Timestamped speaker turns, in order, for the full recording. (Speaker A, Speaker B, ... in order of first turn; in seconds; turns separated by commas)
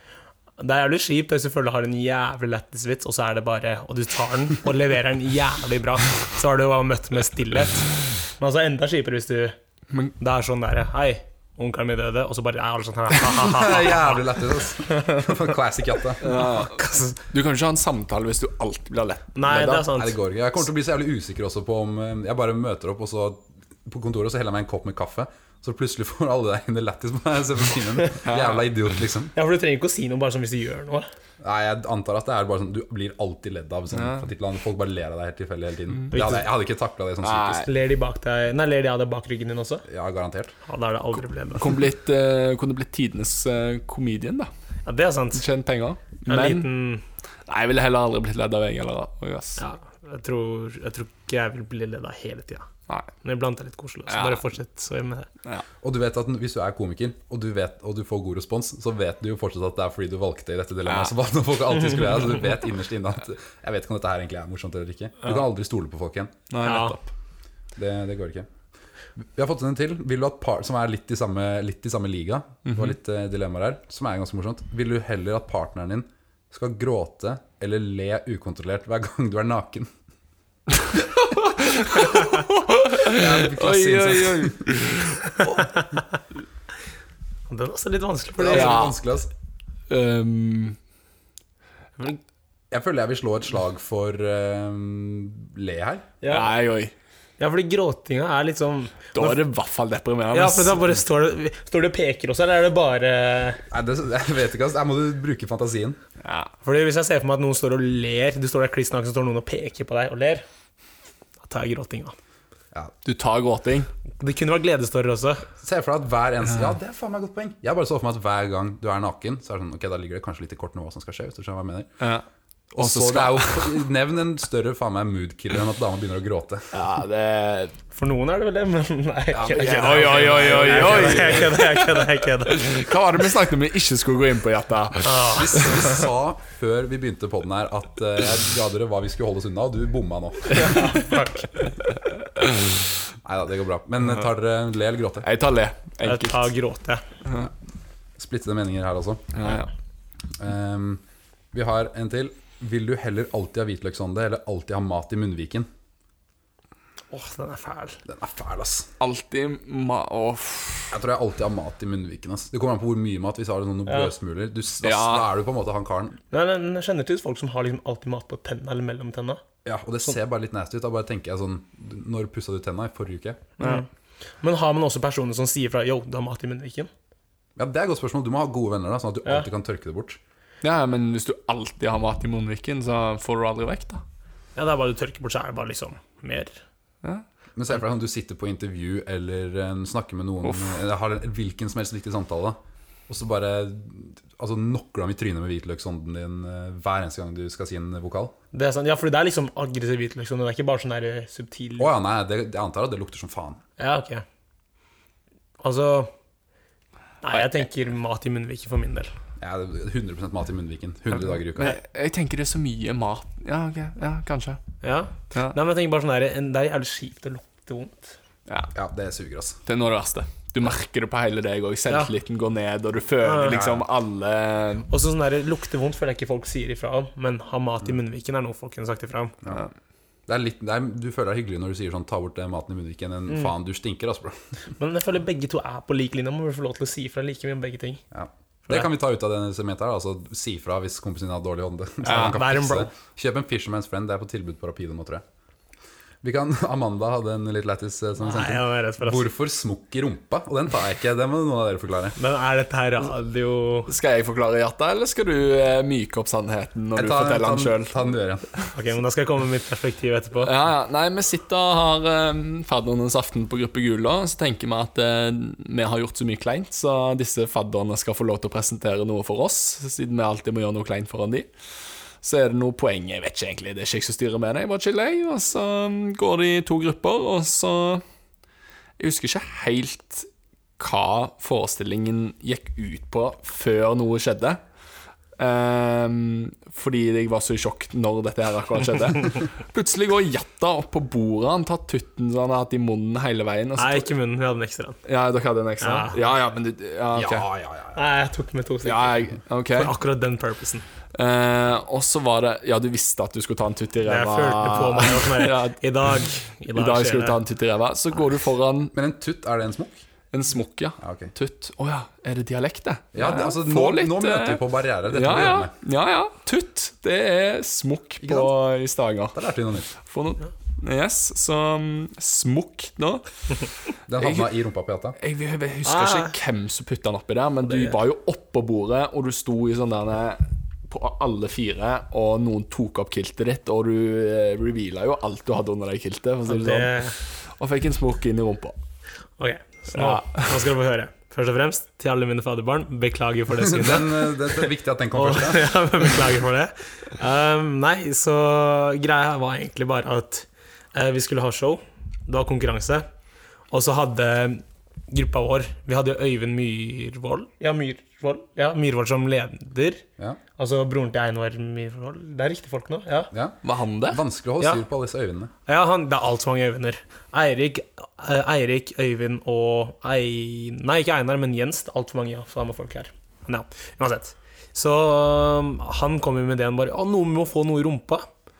Speaker A: 0.6-9.6, Speaker A: 10.2-14.2, Speaker B: 13.3-16.4, Speaker A: 14.9-15.3, Speaker C: 16.2-19.9, Speaker A: 16.2-17.2, Speaker A: 19.4-20.2, Speaker B: 19.9-29.3, Speaker C: 28.2-28.6, Speaker A: 29.4-31.1, Speaker B: 31.4-37.7, Speaker C: 33.9-34.2, Speaker A: 36.1-36.4, Speaker C: 37.2-37.7, Speaker A: 37.6-39.8, Speaker B: 39.9-40.6, Speaker A: 40.6-41.8, Speaker C: 41.5-44.5, Speaker A: 44.9-45.4, Speaker C: 45.3-46.7, Speaker A: 46.3-47.0, Speaker C: 47.5-49.6, Speaker A: 49.6-52.7, Speaker A: 53.2-55.3, Speaker C: 54.1-54.4, Speaker B: 55.8-66.4, Speaker C: 66.5-67.1, Speaker A: 66.6-67.0, Speaker B: 67.8-68.5, Speaker B: 69.2-79.9, Speaker C: 72.7-72.9, Speaker C: 81.0-85.7, Speaker B: 83.0-84.7, Speaker A: 85.4-86.0, Speaker A: 87.5-88.8, Speaker B: 88.4-89.3, Speaker C: 88.5-89.0, Speaker C: 89.9-90.8, Speaker B: 92.7-96.1, Speaker A: 96.2-96.5, Speaker C: 96.3-96.9, Speaker A: 97.4-99.4, Speaker C: 99.1-100.8, Speaker A: 100.3-103.6, Speaker B: 103.7-106.0, Speaker C: 106.2-106.5, Speaker A: 106.6-110.5, Speaker A: 111.4-112.1, Speaker C: 113.0-113.9, Speaker A: 114.2-115.5, Speaker B: 115.6-121.9, Speaker C: 122.0-122.2, Speaker B: 122.7-126.7, Speaker C: 122.8-123.8, Speaker C: 126.7-127.8, Speaker A: 127.9-132.7, Speaker B: 129.3-131.4, Speaker C: 129.5-135.8, Speaker A: 135.0-136.0, Speaker B: 135.2-140.9, Speaker C: 140.5-141.1, Speaker A: 140.6-141.5, Speaker B: 143.2-145.3, Speaker C: 145.2-146.5, Speaker A: 146.0-147.1, Speaker B: 148.2-149.3, Speaker C: 149.3-149.7, Speaker B: 150.4-151.0, Speaker B: 151.5-155.7, Speaker A: 157.1-158.0, Speaker B: 158.1-158.9, Speaker C: 159.0-160.9, Speaker B: 160.9-166.2, Speaker C: 164.8-165.3, Speaker A: 166.3-169.4, Speaker B: 169.6-173.5, Speaker C: 173.6-173.8, Speaker A: 173.6-173.9, Speaker A: 174.4-176.9, Speaker B: 177.6-180.2, Speaker C: 180.6-184.0, Speaker A: 184.6-186.6, Speaker B: 187.6-198.3, Speaker C: 190.4-190.8, Speaker A: 198.5-201.9, Speaker B: 201.8-203.6, Speaker A: 203.8-204.2, Speaker A: 205.6-206.1, Speaker A: 207.2-209.1, Speaker B: 209.4-211.8, Speaker C: 211.6-214.6, Speaker A: 214.8-218.2, Speaker B: 218.7-219.6, Speaker C: 219.7-224.9, Speaker A: 223.2-223.6, Speaker B: 223.5-223.9, Speaker A: 224.9-229.3, Speaker B: 230.3-234.4, Speaker A: 234.8-238.0, Speaker B: 238.1-245.2, Speaker A: 242.0-242.9, Speaker C: 242.1-242.4, Speaker B: 246.2-252.2, Speaker A: 248.2-249.3, Speaker A: 252.2-253.9, Speaker C: 253.9-258.0, Speaker B: 256.9-258.4, Speaker A: 258.7-260.5, Speaker C: 260.4-271.5, Speaker C: 272.2-278.0, Speaker C: 279.0-280.3, Speaker C: 280.8-284.6, Speaker C: 285.4-294.1, Speaker A: 293.8-295.0, Speaker C: 295.1-297.4, Speaker A: 295.8-296.1, Speaker B: 297.1-298.0, Speaker A: 297.9-300.9, Speaker C: 298.9-299.9, Speaker C: 301.1-306.1, Speaker A: 304.0-307.4, Speaker C: 306.8-308.9, Speaker B: 308.9-310.0, Speaker C: 310.3-319.4, Speaker B: 311.0-311.3, Speaker B: 313.1-315.7, Speaker B: 318.2-318.5, Speaker B: 319.4-319.9, Speaker C: 320.1-323.2, Speaker B: 324.1-325.2, Speaker C: 324.2-324.5, Speaker C: 325.2-338.8, Speaker A: 325.9-326.3, Speaker A: 327.7-327.9, Speaker A: 336.5-337.1, Speaker A: 339.4-353.1, Speaker C: 339.9-340.6, Speaker B: 343.6-345.7, Speaker A: 353.7-360.0, Speaker A: 360.6-363.3, Speaker B: 363.3-363.6, Speaker C: 363.6-364.2, Speaker B: 364.1-365.5, Speaker A: 365.6-378.3